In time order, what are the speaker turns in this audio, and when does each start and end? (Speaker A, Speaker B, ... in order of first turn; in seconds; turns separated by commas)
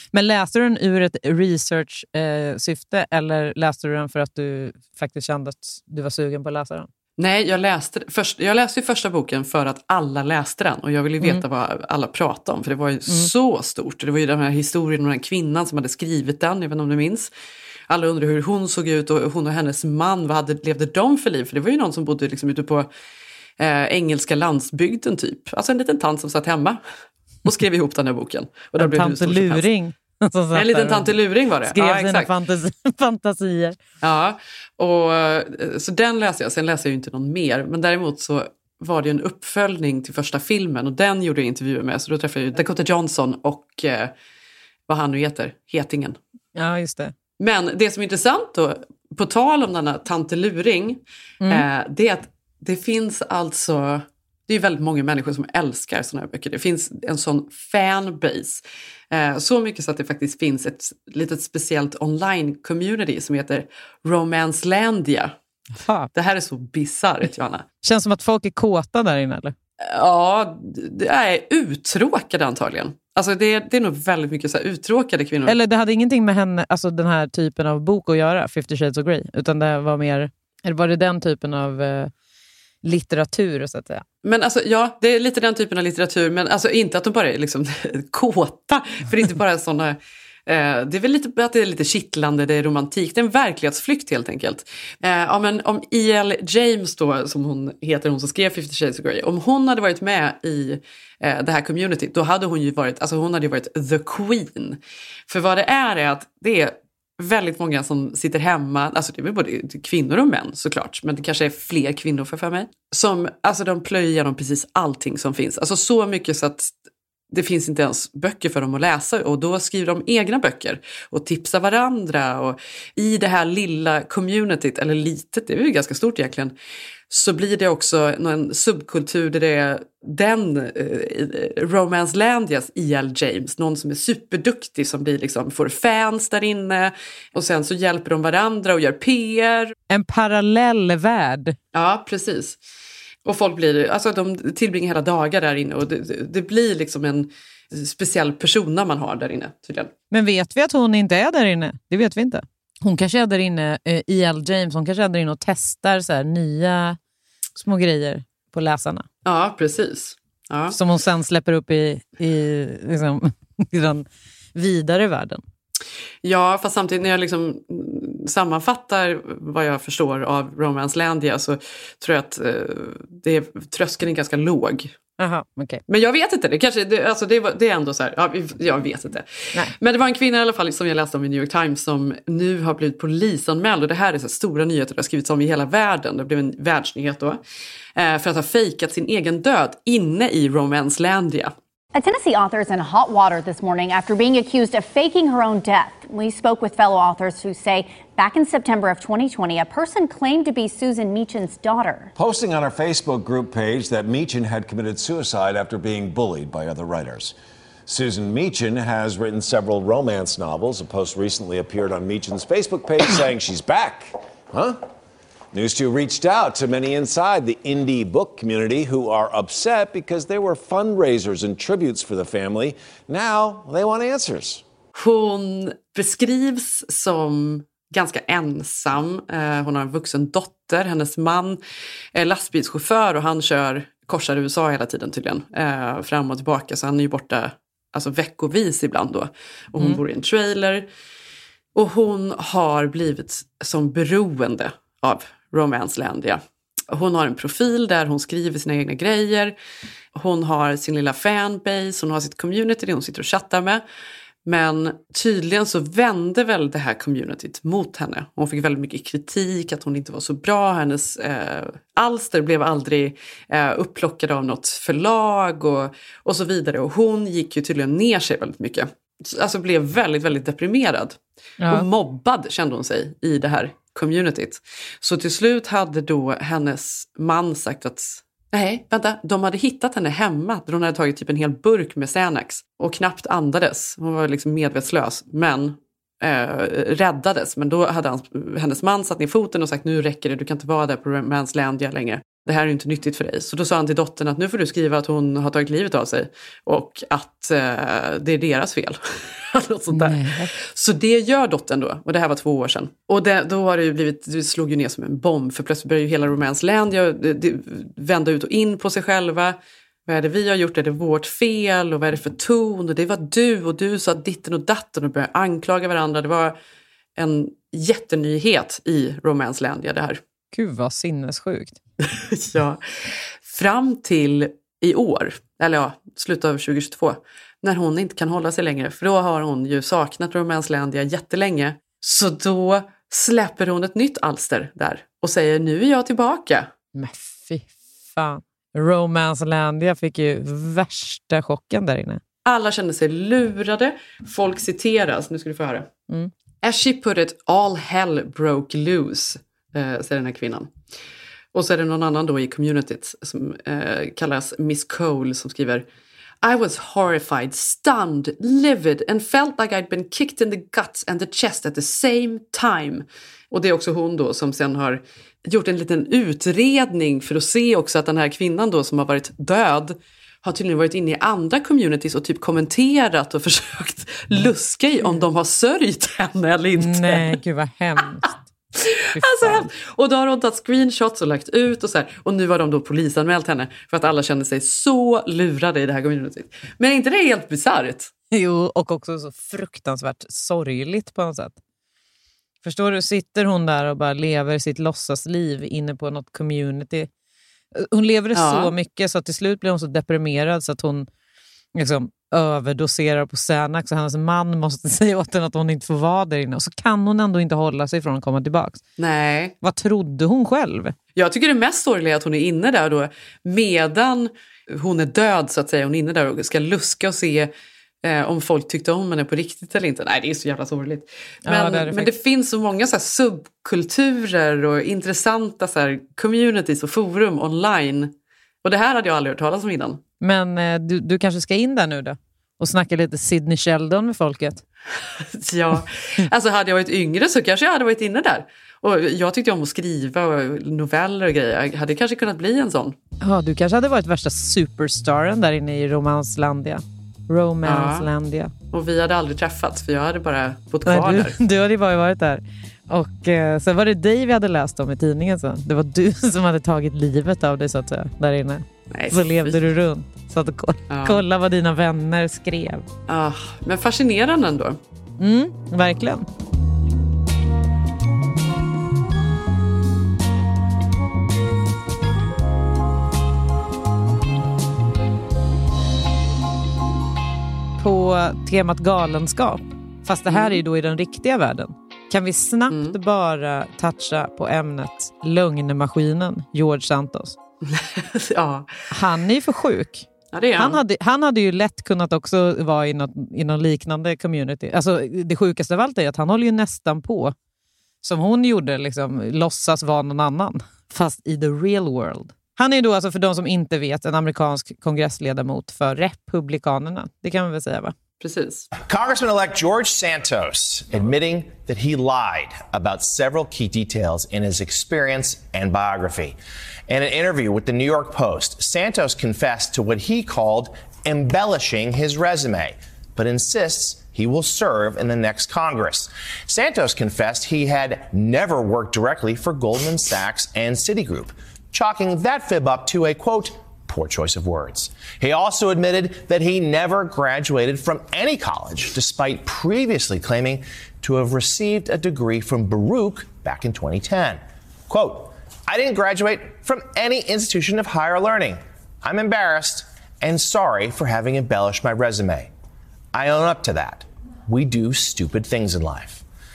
Speaker A: 0.1-6.9, Speaker B: 7.2-17.3, Speaker B: 17.9-22.9, Speaker B: 23.6-26.8, Speaker B: 27.4-29.7, Speaker A: 28.8-31.1, Speaker B: 30.5-32.3, Speaker A: 31.7-33.8, Speaker B: 34.0-44.1, Speaker B: 44.9-46.2, Speaker A: 46.5-47.1, Speaker B: 47.4-65.3, Speaker A: 65.8-66.1, Speaker B: 66.1-67.6, Speaker A: 67.8-69.5, Speaker B: 69.8-75.5, Speaker A: 75.5-82.1, Speaker A: 82.8-84.0, Speaker B: 84.2-116.7, Speaker B: 117.3-126.5, Speaker B: 127.1-139.7, Speaker A: 139.9-141.6, Speaker B: 141.7-142.6, Speaker B: 143.2-149.9, Speaker A: 150.1-157.0, Speaker A: 157.6-159.1, Speaker B: 159.2-160.8, Speaker A: 160.7-165.4, Speaker B: 166.2-174.9, Speaker A: 175.2-175.8, Speaker B: 175.9-187.4, Speaker B: 187.9-191.5, Speaker C: 191.9-202.1, Speaker D: 202.1-207.3, Speaker D: 207.9-214.8, Speaker D: 215.5-224.6, Speaker B: 224.9-231.6, Speaker B: 232.1-240.9, Speaker B: 241.7-249.6, Speaker B: 250.1-253.8, Speaker B: 254.4-271.2, Speaker A: 271.6-271.9, Speaker B: 271.7-316.6, Speaker A: 299.9-300.5, Speaker B: 317.1-320.2, Speaker A: 320.5-321.8, Speaker B: 322.0-336.7, Speaker A: 336.9-342.2, Speaker B: 342.4-345.9, Speaker B: 346.6-350.7, Speaker B: 351.5-355.8, Speaker B: 356.4-377.4, Speaker A: 376.7-378.4, Speaker B: 378.8-388.1, Speaker A: 379.1-379.7, Speaker A: 388.3-391.6, Speaker A: 392.6-397.1, Speaker A: 397.7-401.1, Speaker B: 398.3-398.7, Speaker A: 401.7-408.8, Speaker B: 409.0-409.5, Speaker A: 409.6-410.9, Speaker B: 411.1-417.5, Speaker B: 418.0-428.1, Speaker A: 421.4-422.1, Speaker B: 428.6-430.0, Speaker A: 430.2-434.6, Speaker B: 435.2-442.9, Speaker A: 443.2-448.5, Speaker B: 447.6-448.1, Speaker B: 448.7-451.4, Speaker A: 450.9-462.9, Speaker B: 458.9-459.6, Speaker B: 460.9-461.2, Speaker B: 463.1-464.8, Speaker A: 465.2-466.2, Speaker A: 477.8-487.4, Speaker B: 480.3-480.6, Speaker B: 482.7-482.9, Speaker B: 487.6-488.7, Speaker A: 488.9-497.3, Speaker B: 490.3-490.8, Speaker A: 498.0-507.9, Speaker B: 508.2-508.7, Speaker E: 508.8-516.4, Speaker E: 516.9-552.5, Speaker E: 553.1-556.2